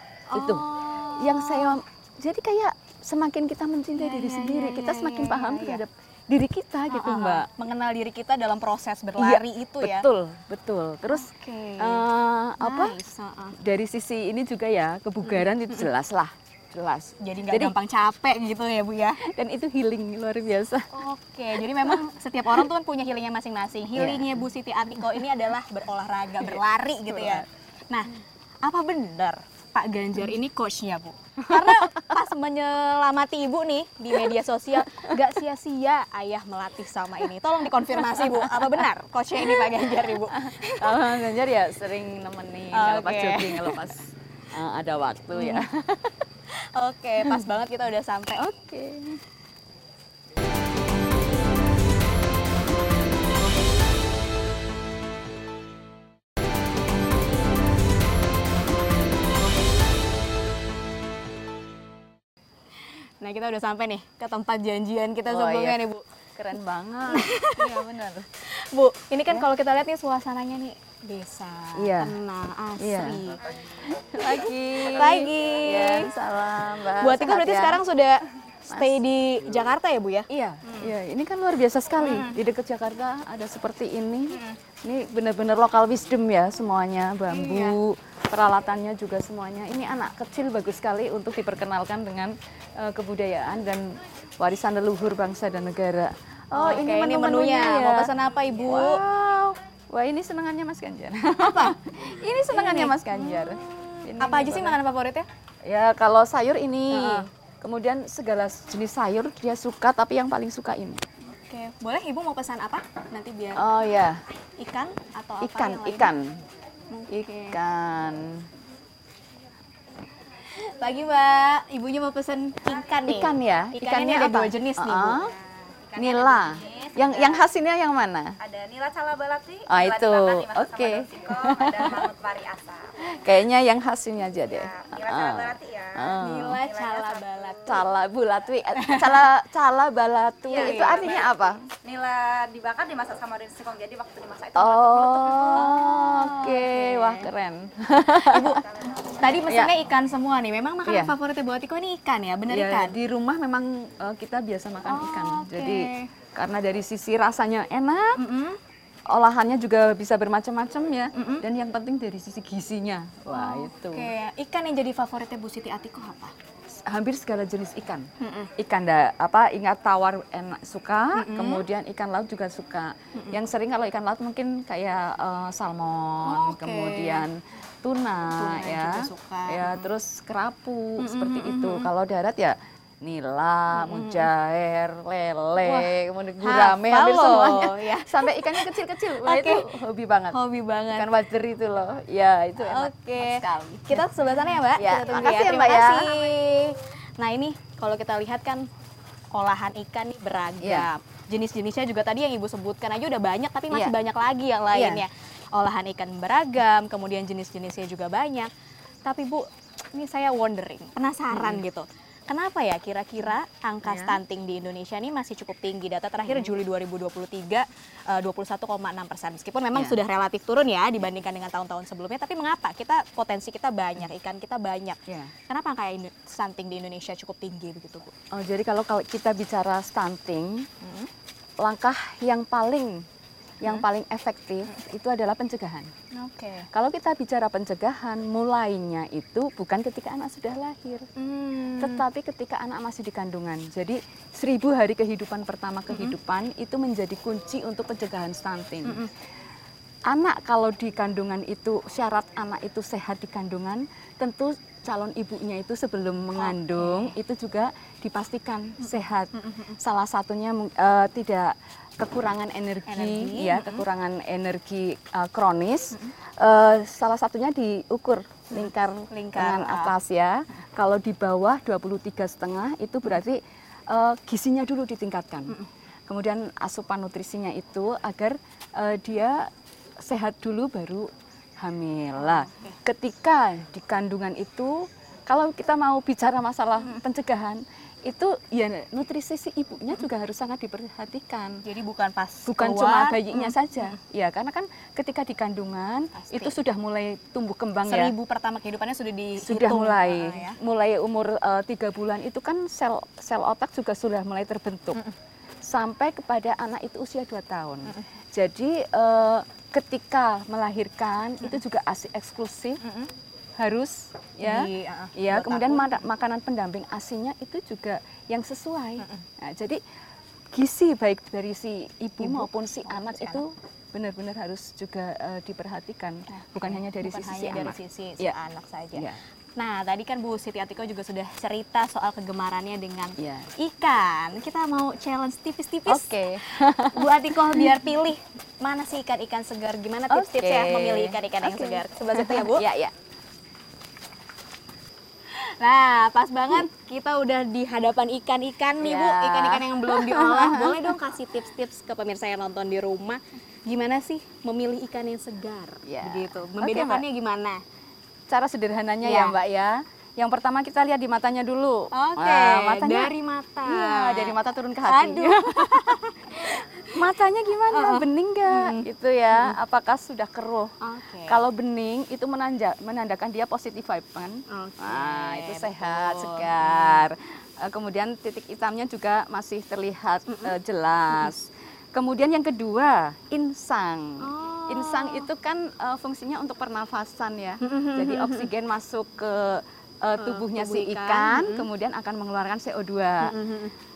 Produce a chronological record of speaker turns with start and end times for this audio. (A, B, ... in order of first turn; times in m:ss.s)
0:00.3-0:01.8 A
0:00.3-0:07.5 B
0:04.0-0:05.8 A
0:06.9-0:10.1 A
0:09.2-0:13.0 B
0:11.1-0:12.0 A
0:12.6-0:13.6 A
0:13.6-0:17.8 B
0:15.3-0:15.8 A
0:17.2-0:19.2 A
0:19.2-0:21.0 B
0:20.9-0:41.2 A
0:21.7-0:22.0 B
0:24.0-0:24.4 B
0:27.1-0:27.5 B
0:31.4-0:32.2 B
0:34.9-0:35.2 B
0:37.9-0:38.8 B
0:39.4-0:46.2 B
0:42.7-0:44.0 A
0:45.4-0:45.7 A
0:46.5-0:48.5 A
0:47.2-0:47.5 B
0:48.4-0:49.2 B
1:03.2-1:06.1 A
1:05.3-1:05.8 B
1:06.4-1:08.3 B
1:07.1-1:07.8 A
1:08.4-1:13.7 A
1:11.8-1:12.2 B
1:12.8-1:13.2 B
1:13.8-1:17.8 B
1:14.2-1:16.1 A
1:17.0-1:20.9 A
1:18.7-1:19.0 B
1:20.3-1:44.8 B
1:22.0-1:22.4 A
1:24.3-1:24.6 A
1:27.3-1:27.8 A
1:36.6-1:39.0 A
1:41.4-1:41.8 A
1:42.5-1:45.3 A
1:45.6-1:51.0 B
1:46.9-1:47.3 A
1:51.5-1:53.6 A
1:53.6-1:54.2 B
1:54.6-1:56.1 A
1:55.4-1:56.4 B
1:56.9-1:57.6 A
1:57.5-1:58.5 B
2:00.5-2:05.4 A
2:03.0-2:05.3 B
2:05.9-2:07.4 C
2:06.0-2:08.4 B
2:08.4-2:13.0 C
2:09.7-2:12.1 B
2:13.0-2:16.6 B
2:14.5-2:17.7 C
2:16.2-2:17.8 A
2:17.6-2:21.7 B
2:18.8-2:19.2 A
2:20.5-2:21.3 A
2:20.6-2:21.3 C
2:21.8-2:25.9 C
2:24.6-2:28.6 B
2:25.5-2:27.3 A
2:28.2-2:33.0 A
2:28.8-2:29.2 C
2:29.5-2:29.8 B
2:30.9-2:31.2 B
2:32.5-2:38.2 B
2:34.9-2:36.1 A
2:38.2-2:38.6 A
2:39.1-2:44.1 B
2:41.1-2:41.4 A
2:43.3-2:46.3 A
2:46.7-3:10.4 B
2:48.2-2:48.5 A
2:51.1-2:51.6 A
2:56.2-2:57.2 A
2:58.3-2:59.9 A
3:01.0-3:01.9 A
3:03.7-3:04.3 A
3:05.6-3:09.8 A
3:10.3-3:11.1 A
3:10.9-3:14.1 B
3:12.6-3:18.7 A
3:14.7-3:16.1 B
3:19.3-3:28.5 A
3:20.6-3:20.9 B
3:24.7-3:25.0 B
3:29.0-3:48.1 A
3:31.3-3:31.6 B
3:33.8-3:34.2 B
3:36.3-3:36.6 B
3:45.1-3:45.3 B
3:48.3-3:50.7 B
3:50.8-3:51.1 A
3:51.6-3:53.0 B
3:53.6-3:55.9 B
3:56.1-3:56.7 A
3:56.7-4:01.1 B
4:01.2-4:02.0 A
4:01.8-4:09.0 B
4:08.8-4:09.1 A
4:10.1-4:51.6 B
4:16.4-4:17.2 A
4:19.4-4:19.8 A
4:22.9-4:23.8 A
4:28.5-4:30.0 A
4:42.2-4:42.8 A
4:51.6-4:53.9 A
4:52.5-4:58.1 B
4:56.2-4:56.6 A
4:57.9-5:00.6 A
4:59.4-5:05.0 B
5:05.6-5:12.8 B
5:12.8-5:13.1 A
5:13.6-5:19.8 B
5:14.4-5:15.9 A
5:20.5-5:28.4 B
5:22.2-5:23.4 A
5:26.3-5:36.1 A
5:33.2-5:33.5 B
5:35.9-5:37.8 B
5:36.8-5:42.7 A
5:40.1-5:42.9 B
5:45.3-5:57.6 A
5:48.8-5:51.0 B
5:55.9-5:57.0 B
5:58.3-6:03.1 B
5:59.0-5:59.4 A
6:01.9-6:07.0 A
6:03.6-6:10.7 B
6:07.7-6:09.6 A
6:10.8-6:11.4 A
6:11.2-6:33.4 B
6:14.5-6:17.0 A
6:20.3-6:20.6 A
6:24.2-6:25.3 A
6:27.6-6:28.5 A
6:30.2-6:31.7 A
6:33.2-6:33.7 A